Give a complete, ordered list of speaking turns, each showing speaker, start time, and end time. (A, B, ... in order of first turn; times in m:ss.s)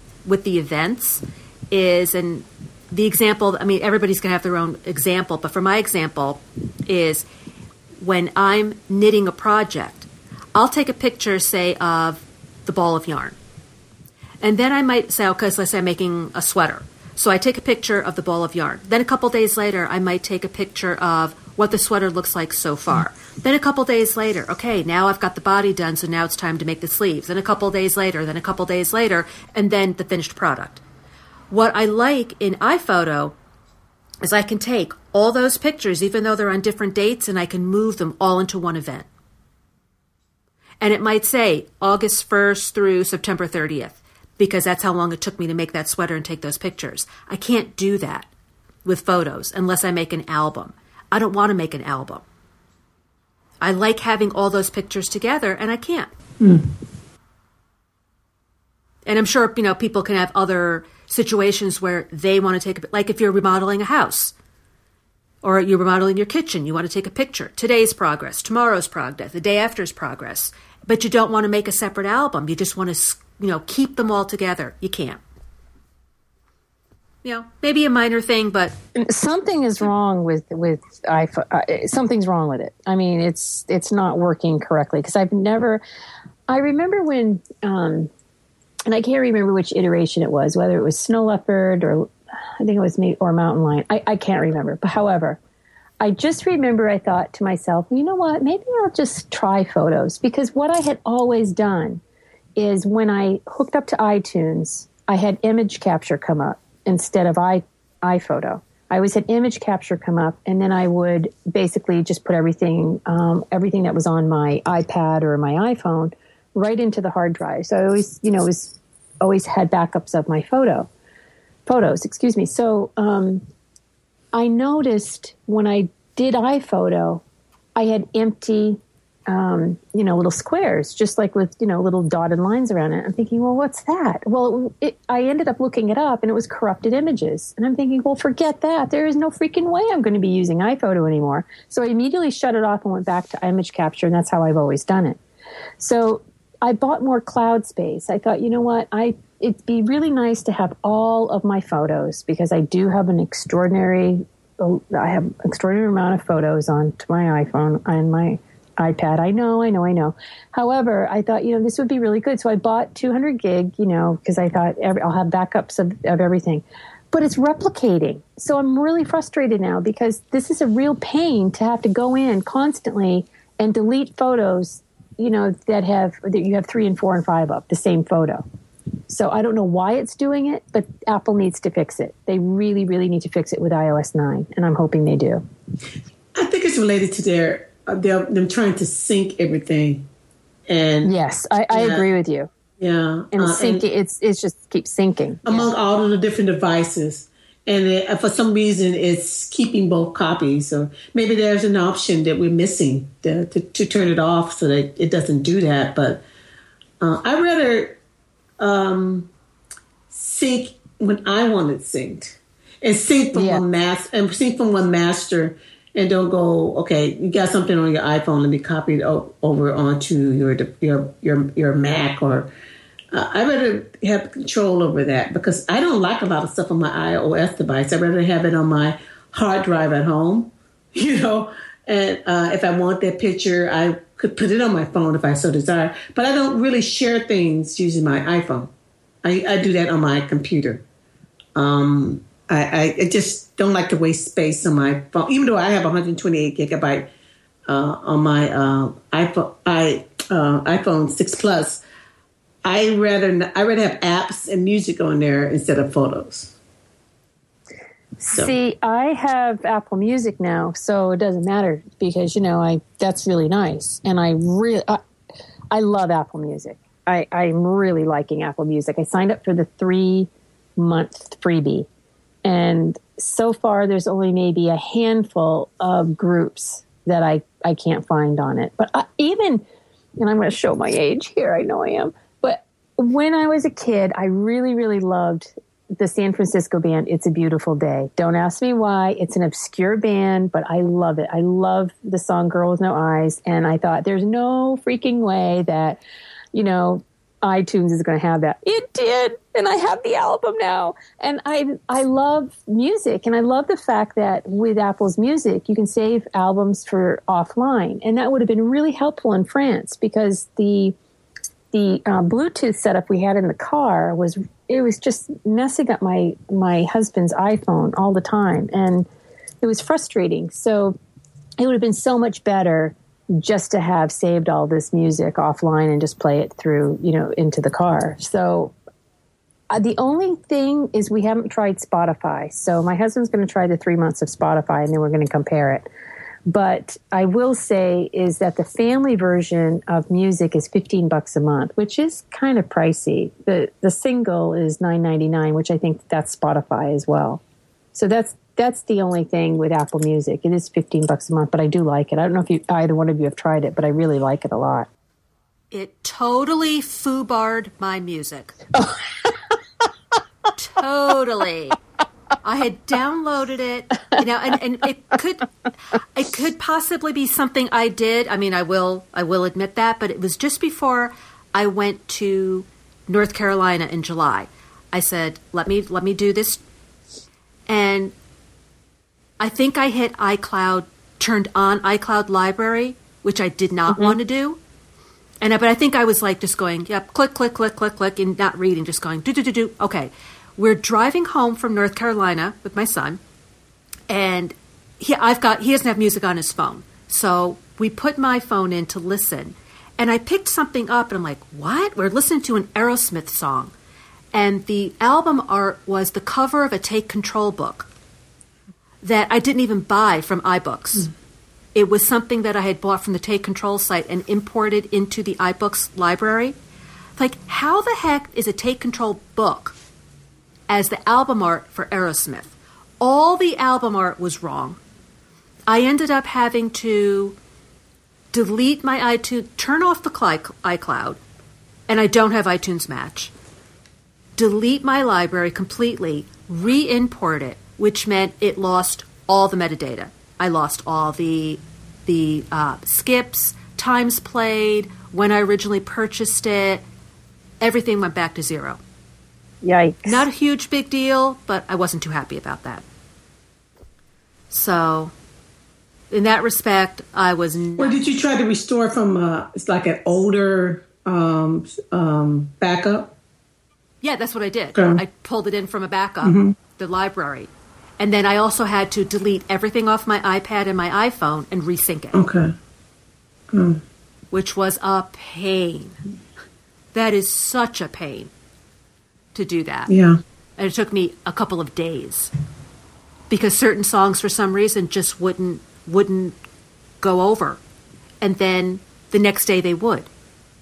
0:00.2-0:07.2 A
0:08.0-0:13.4 A
0:14.4-0:30.8 A
0:31.5-0:33.4 A
0:34.2-0:39.1 A
0:40.8-0:48.3 A
0:48.8-0:52.2 A
0:53.6-0:56.1 A
0:56.4-0:56.7 B
0:59.0-1:04.3 A
1:05.4-1:15.2 A
1:17.2-1:18.8 A
1:19.0-1:25.8 C
1:26.5-1:28.1 C
1:28.9-1:35.4 C
1:36.0-1:42.0 C
1:42.6-2:00.9 C
2:01.6-2:03.4 C
2:04.3-2:07.2 C
2:07.8-2:25.2 C
2:25.8-2:58.4 C
2:59.1-3:05.4 C
3:06.3-3:10.0 B
3:10.7-3:11.1 B
3:11.0-3:12.5 C
3:11.7-3:12.1 B
3:12.8-3:13.8 B
3:13.3-3:15.7 C
3:15.4-3:26.2 B
3:27.0-3:28.0 B
3:28.6-3:29.3 B
3:30.1-3:42.5 B
3:33.3-3:33.6 C
3:43.1-3:58.7 B
3:59.2-4:00.8 B
4:01.5-4:07.1 B
4:07.7-4:11.8 B
4:12.6-4:16.5 B
4:18.2-4:25.0 C
4:25.7-4:31.9 C
4:32.4-4:39.6 C
4:40.2-4:56.0 C
4:56.5-5:11.0 C
5:11.7-5:19.1 C
5:19.6-5:21.0 C
5:21.6-5:28.7 C
5:29.7-5:35.8 C
5:36.5-5:47.4 C
5:47.9-5:54.9 C
5:55.7-5:58.6 A
5:58.7-5:59.5 C
6:00.5-6:01.8 A
6:02.4-6:16.6 A
6:17.7-6:18.1 A
6:19.4-6:24.6 A
6:23.9-6:24.2 C
6:25.4-6:33.2 A
6:34.1-6:43.7 A
6:44.3-6:47.9 A
6:49.0-6:51.1 A
6:51.7-6:56.5 A
6:57.2-6:59.7 A
7:00.7-7:04.8 A
7:05.7-7:07.4 A
7:08.3-7:11.2 A
7:11.9-7:13.3 A
7:14.4-7:26.8 A
7:27.6-7:28.8 A
7:29.6-7:30.2 C
7:30.0-7:32.8 A
7:34.5-7:35.1 A
7:36.1-7:38.0 A
7:37.8-7:43.1 B
7:44.0-7:52.2 A
7:44.7-7:45.0 B
7:46.2-7:46.5 B
7:52.1-7:52.5 B
7:53.5-7:53.8 B
7:54.3-7:56.0 A
7:56.9-7:58.3 A
7:59.3-7:59.9 A
7:59.9-8:00.2 B
8:00.6-8:02.3 A
8:03.3-8:06.4 A
8:07.0-8:07.6 A
8:08.2-8:10.1 A